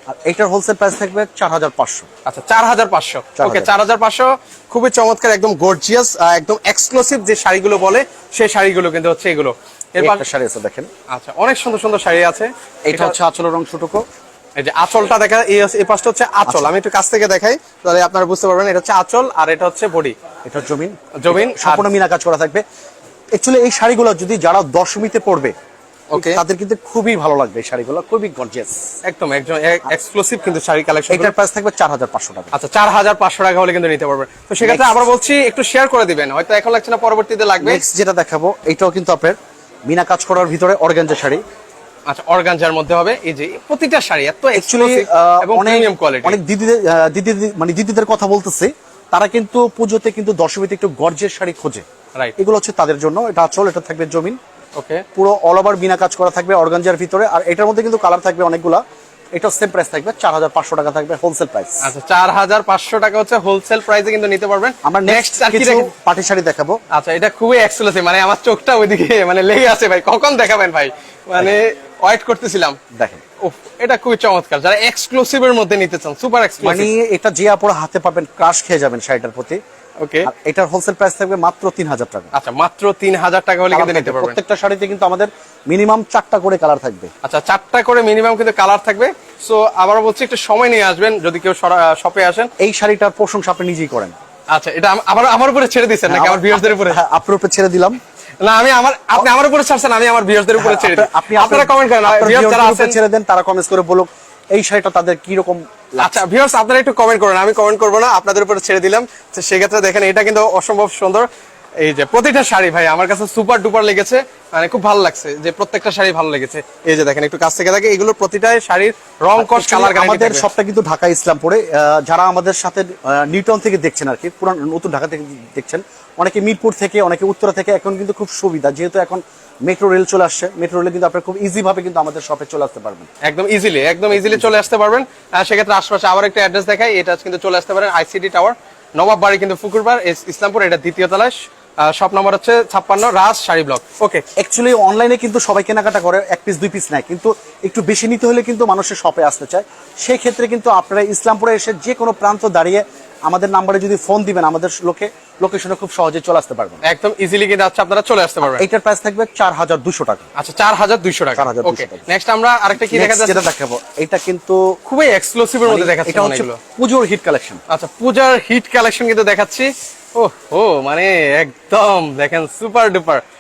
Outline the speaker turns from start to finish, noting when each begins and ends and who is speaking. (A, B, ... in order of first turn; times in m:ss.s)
0:00.1-0:02.1 A
0:02.2-0:10.2 B
0:03.4-0:03.7 A
0:10.0-0:10.9 A
0:11.1-0:13.1 B
0:12.8-0:14.0 A
0:14.6-0:20.1 B
0:16.4-0:16.8 A
0:20.4-0:22.6 A
0:21.2-0:21.9 B
0:23.3-0:25.5 A
0:26.1-0:26.4 B
0:26.1-0:28.9 A
0:29.0-0:31.3 B
0:31.1-0:32.5 A
0:32.5-0:37.8 B
0:34.6-0:35.1 A
0:37.6-0:41.4 A
0:42.1-0:46.4 B
0:44.5-0:51.8 A
0:52.4-0:54.4 A
0:54.8-0:55.0 B
0:55.1-0:58.8 A
0:59.3-1:01.9 A
1:01.8-1:05.9 B
1:04.8-1:06.8 A
1:06.9-1:12.8 B
1:12.9-1:13.2 A
1:13.4-1:16.9 B
1:16.6-1:19.6 A
1:20.0-1:20.3 B
1:20.2-1:22.3 A
1:22.3-1:24.4 B
1:23.7-1:27.1 A
1:27.2-1:32.5 B
1:32.6-1:34.1 A
1:34.5-1:37.0 B
1:36.1-1:38.0 A
1:38.4-1:43.0 B
1:40.6-1:46.2 A
1:46.0-1:51.3 B
1:51.8-2:00.5 B
1:59.4-2:13.1 A
2:13.2-2:24.2 B
2:14.1-2:14.6 A
2:24.4-2:36.8 A
2:36.8-2:38.6 B
2:38.4-2:40.2 A
2:40.3-2:43.4 B
2:41.4-2:42.0 A
2:42.9-2:44.7 A
2:44.9-2:46.6 B
2:45.6-2:47.6 A
2:47.7-2:53.2 B